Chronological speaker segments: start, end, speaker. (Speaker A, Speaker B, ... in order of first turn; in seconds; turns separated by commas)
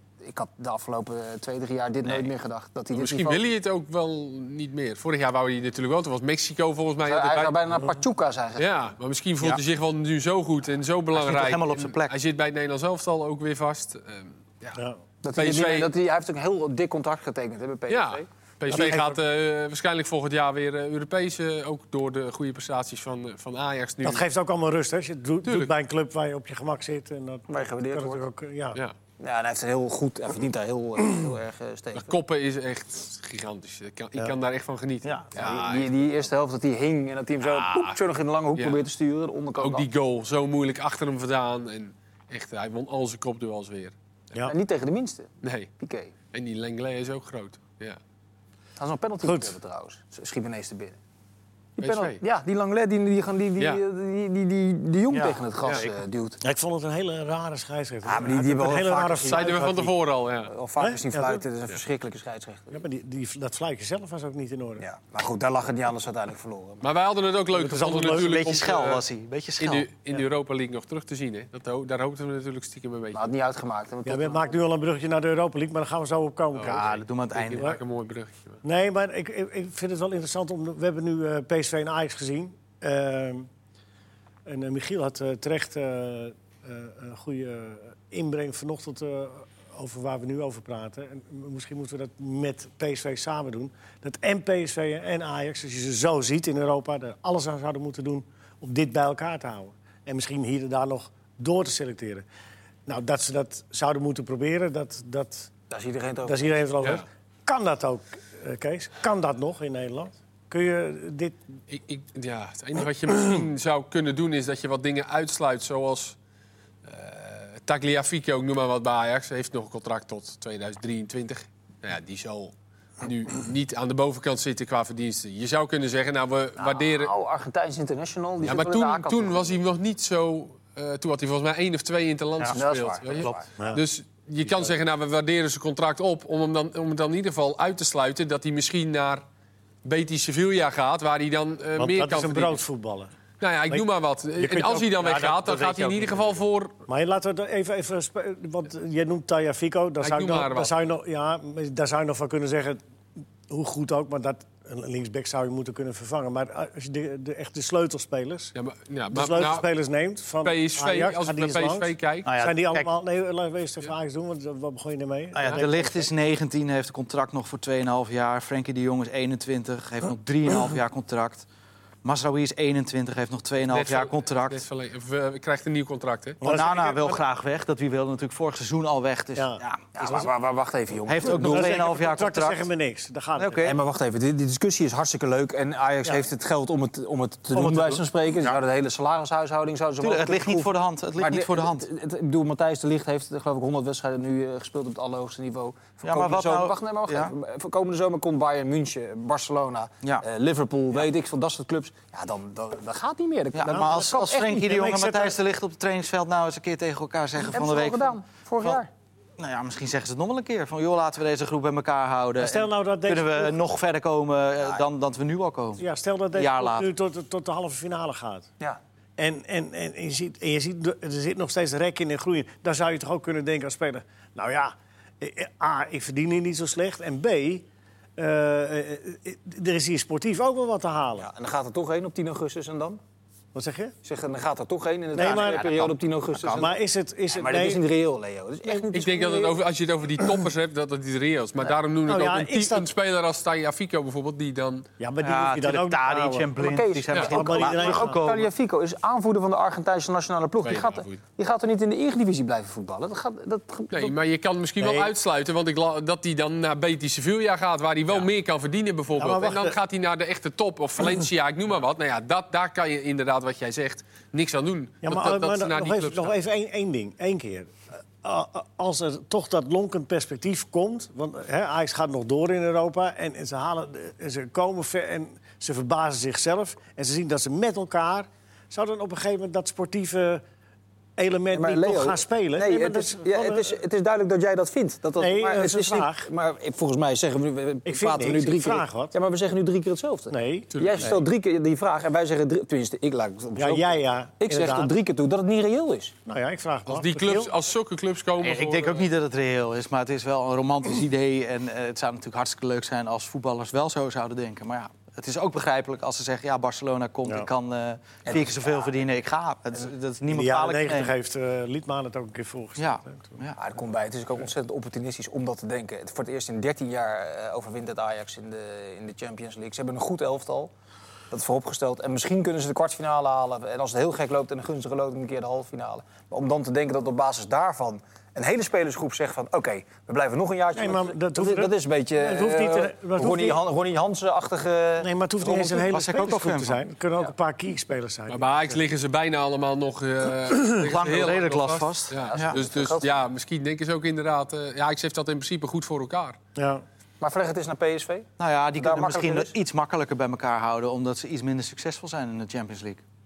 Speaker A: 0.2-3.4, Speaker B: 2.9-7.6, Speaker A: 7.0-8.7, Speaker B: 8.6-14.8, Speaker C: 11.1-12.2, Speaker A: 15.2-18.3, Speaker B: 15.4-15.9, Speaker B: 17.9-24.2, Speaker D: 18.7-19.2, Speaker D: 24.0-28.8, Speaker B: 25.4-25.7, Speaker A: 27.5-28.2, Speaker A: 29.2-32.1, Speaker B: 32.0-35.9, Speaker C: 35.0-35.7, Speaker A: 35.4-39.9, Speaker B: 37.4-38.0, Speaker B: 38.6-38.8, Speaker B: 39.6-43.9, Speaker A: 44.4-46.1, Speaker B: 45.4-45.7, Speaker B: 46.3-48.0, Speaker A: 48.8-51.0, Speaker D: 49.2-49.5, Speaker A: 51.8-56.4, Speaker B: 51.8-52.2, Speaker C: 55.1-55.4, Speaker B: 55.7-55.9, Speaker D: 56.4-59.9, Speaker A: 58.0-59.7, Speaker B: 59.3-60.5, Speaker A: 60.5-62.8, Speaker D: 60.8-61.4, Speaker D: 62.7-64.8, Speaker A: 64.8-66.9, Speaker B: 66.8-69.0, Speaker D: 67.5-68.5, Speaker C: 68.1-69.9, Speaker B: 69.6-73.2, Speaker A: 73.1-74.5, Speaker D: 74.1-76.9, Speaker B: 76.6-78.6, Speaker C: 76.6-77.7, Speaker D: 77.5-77.8, Speaker D: 78.6-83.5, Speaker D: 84.5-102.2, Speaker D: 102.9-105.5, Speaker A: 105.7-106.5, Speaker D: 106.3-111.4, Speaker B: 111.7-116.2, Speaker B: 116.8-127.1, Speaker A: 126.6-129.6, Speaker B: 128.4-139.2, Speaker A: 132.5-133.5, Speaker B: 139.8-142.6, Speaker D: 141.8-143.1, Speaker B: 143.4-146.8, Speaker D: 144.4-146.2, Speaker D: 146.9-152.8, Speaker B: 150.0-150.7, Speaker D: 153.5-158.5, Speaker B: 158.6-159.7, Speaker D: 159.1-166.1, Speaker B: 160.4-162.3, Speaker C: 162.2-162.9, Speaker C: 165.3-171.5, Speaker C: 172.0-174.6, Speaker B: 173.7-176.4, Speaker D: 176.4-177.2, Speaker C: 176.4-180.3, Speaker D: 179.4-180.3, Speaker A: 179.9-181.8, Speaker C: 181.1-182.7, Speaker D: 181.3-183.7, Speaker C: 183.4-183.8, Speaker A: 183.6-204.6, Speaker C: 187.5-188.6, Speaker C: 190.0-191.9, Speaker C: 196.0-197.3, Speaker C: 203.5-208.8, Speaker D: 203.7-205.4, Speaker A: 207.5-208.9, Speaker C: 209.4-215.8, Speaker D: 212.4-213.6, Speaker D: 215.8-218.5, Speaker C: 216.3-216.9, Speaker D: 219.2-227.7, Speaker D: 228.2-231.3, Speaker A: 231.2-233.0, Speaker D: 233.5-233.9, Speaker A: 234.1-236.8, Speaker D: 235.1-235.8, Speaker C: 235.2-236.7, Speaker D: 236.5-237.8, Speaker A: 237.3-239.6, Speaker B: 238.9-244.9, Speaker D: 242.1-242.9, Speaker D: 245.0-246.5, Speaker C: 245.2-248.5, Speaker A: 246.6-254.1, Speaker D: 247.3-248.2, Speaker B: 250.6-251.2, Speaker B: 253.9-266.3, Speaker D: 254.8-255.1, Speaker D: 259.2-259.8, Speaker D: 265.0-280.4, Speaker D: 281.2-283.8, Speaker A: 281.5-296.1, Speaker D: 285.2-286.3, Speaker D: 287.9-289.1, Speaker D: 290.3-291.1, Speaker B: 290.7-291.1, Speaker D: 293.6-294.9, Speaker D: 296.3-297.5, Speaker B: 296.9-299.1, Speaker C: 298.4-311.1, Speaker A: 308.2-308.8, Speaker D: 310.3-313.4, Speaker C: 312.8-313.6, Speaker A: 313.6-320.7, Speaker A: 321.3-335.8, Speaker D: 330.8-333.6, Speaker D: 335.0-338.8, Speaker C: 335.8-336.8, Speaker B: 338.3-346.4, Speaker C: 340.7-342.6, Speaker A: 342.2-343.1, Speaker D: 346.6-346.8, Speaker A: 347.2-349.5, Speaker C: 348.4-353.0